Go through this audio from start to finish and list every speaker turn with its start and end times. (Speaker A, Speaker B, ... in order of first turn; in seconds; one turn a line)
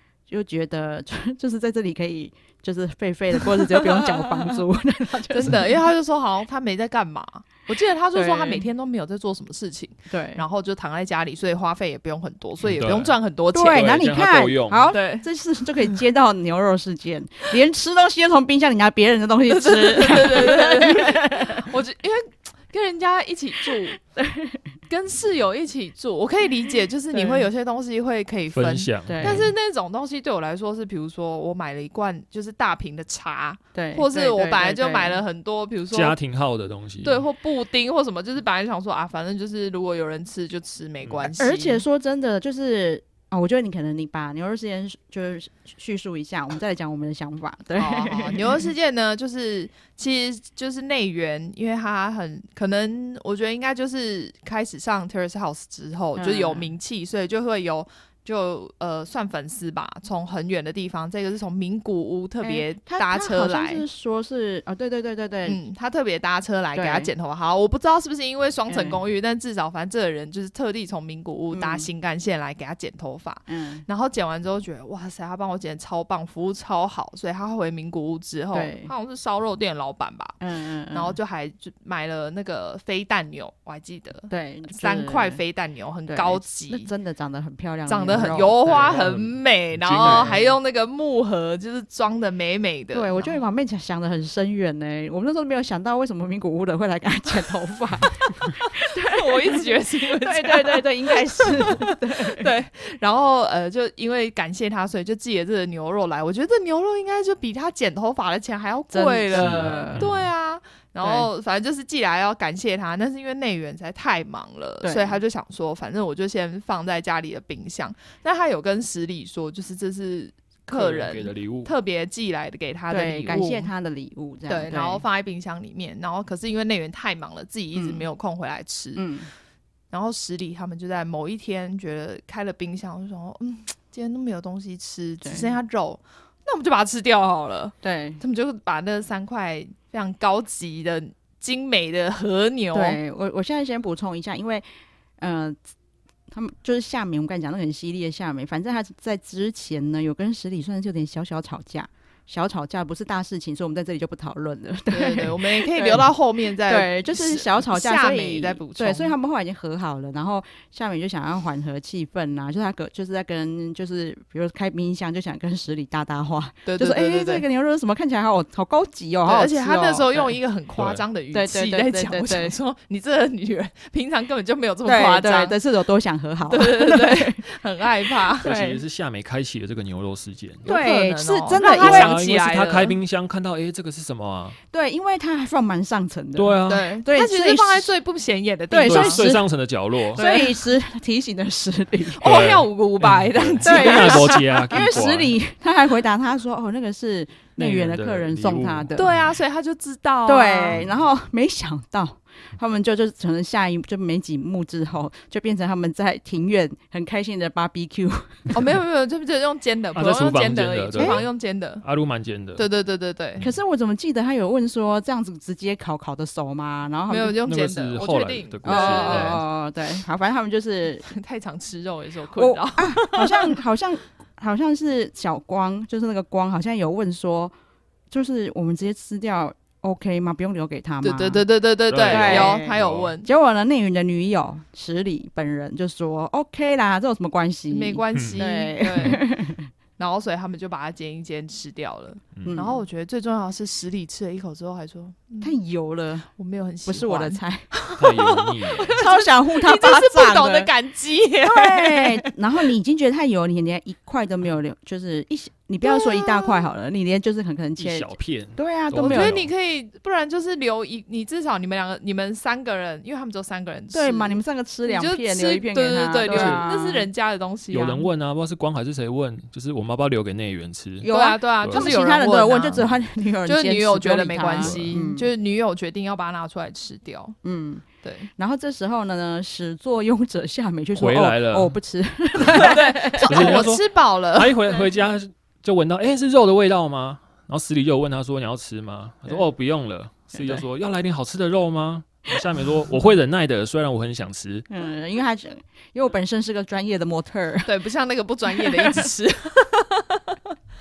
Speaker A: 0.3-5.7
Speaker B: 3.6-4.2
Speaker B: 5.3-14.0
Speaker A: 8.1-8.6
Speaker A: 10.1-10.4
Speaker C: 12.6-13.2
Speaker A: 13.5-21.6
Speaker C: 13.7-14.9
Speaker B: 14.9-15.3
Speaker B: 19.5-24.0
Speaker A: 23.9-24.6
Speaker B: 24.9-36.2
Speaker A: 27.1-27.5
Speaker C: 28.5-29.5
Speaker A: 29.1-29.5
Speaker A: 33.8-35.2
Speaker C: 35.9-37.2
Speaker B: 37.0-41.8
Speaker A: 41.3-48.7
Speaker B: 47.8-63.8
Speaker A: 56.2-56.7
Speaker A: 62.4-65.6
Speaker B: 65.5-80.4
Speaker A: 66.8-67.1
Speaker A: 68.7-69.0
Speaker A: 71.5-71.9
Speaker A: 73.5-73.9
Speaker A: 78.5-78.9
Speaker A: 80.4-81.2
Speaker B: 80.9-86.9
Speaker A: 84.3-85.4
Speaker A: 86.1-88.9
Speaker B: 87.9-93.3
Speaker C: 88.7-90.5
Speaker A: 92.9-102.5
Speaker B: 98.6-123.7
Speaker A: 108.9-110.1
Speaker C: 109.3-110.3
Speaker A: 111.0-111.3
Speaker A: 114.8-115.2
Speaker C: 120.7-121.7
Speaker A: 122.9-125.0
Speaker B: 124.5-129.1
Speaker A: 127.8-128.1
Speaker A: 129.0-129.3
Speaker B: 129.9-143.0
Speaker A: 135.2-135.5
Speaker A: 137.8-138.2
Speaker A: 142.7-144.7
Speaker A: 145.2-145.6
Speaker A: 146.3-156.1
Speaker B: 154.9-159.2
Speaker A: 156.7-170.3
Speaker B: 166.7-167.4
Speaker B: 169.2-175.6
Speaker C: 170.8-171.0
Speaker A: 171.3-172.6
Speaker A: 174.8-177.4
Speaker B: 176.5-178.5
Speaker A: 178.2-178.8
Speaker C: 178.4-180.7
Speaker A: 180.7-182.2
Speaker B: 180.7-183.0
Speaker C: 181.6-184.6
Speaker A: 184.7-187.9
Speaker C: 186.4-186.9
Speaker B: 186.7-189.3
Speaker A: 188.7-189.4
Speaker C: 188.8-190.2
Speaker A: 190.1-192.3
Speaker B: 190.2-190.5
Speaker B: 192.2-194.6
Speaker C: 192.2-195.3
Speaker A: 193.6-199.1
Speaker C: 197.6-199.4
Speaker B: 199.0-200.8
Speaker A: 200.3-208.6
Speaker B: 208.5-211.8
Speaker C: 209.9-211.3
Speaker C: 211.8-212.7
Speaker B: 212.6-213.4
Speaker A: 213.4-217.4
Speaker B: 217.1-219.4
Speaker C: 217.5-219.4
Speaker A: 218.7-221.1
Speaker B: 221.1-223.6
Speaker A: 222.4-227.5
Speaker A: 228.1-231.4
Speaker B: 231.0-233.3
Speaker C: 231.9-233.1
Speaker A: 232.1-239.7
Speaker B: 237.7-239.2
Speaker B: 240.0-245.6
Speaker C: 242.4-242.6
Speaker A: 242.5-242.8
Speaker A: 245.4-246.3
Speaker B: 246.3-252.3
Speaker A: 246.9-247.7
Speaker C: 248.0-249.0
Speaker A: 248.9-250.7
Speaker A: 251.4-259.4
Speaker B: 255.8-256.7
Speaker C: 257.8-259.5
Speaker B: 259.0-268.1
Speaker A: 263.9-267.1
Speaker C: 266.3-266.6
Speaker C: 267.7-271.1
Speaker A: 271.0-275.3
Speaker B: 271.1-272.9
Speaker C: 271.6-271.9
Speaker B: 273.5-277.4
Speaker C: 274.6-274.9
Speaker A: 277.4-283.7
Speaker B: 278.0-278.3
Speaker C: 281.0-281.8
Speaker B: 282.5-284.6
Speaker C: 283.2-294.7
Speaker A: 290.4-290.6
Speaker A: 294.7-297.7
Speaker B: 297.6-300.4
Speaker A: 298.5-299.1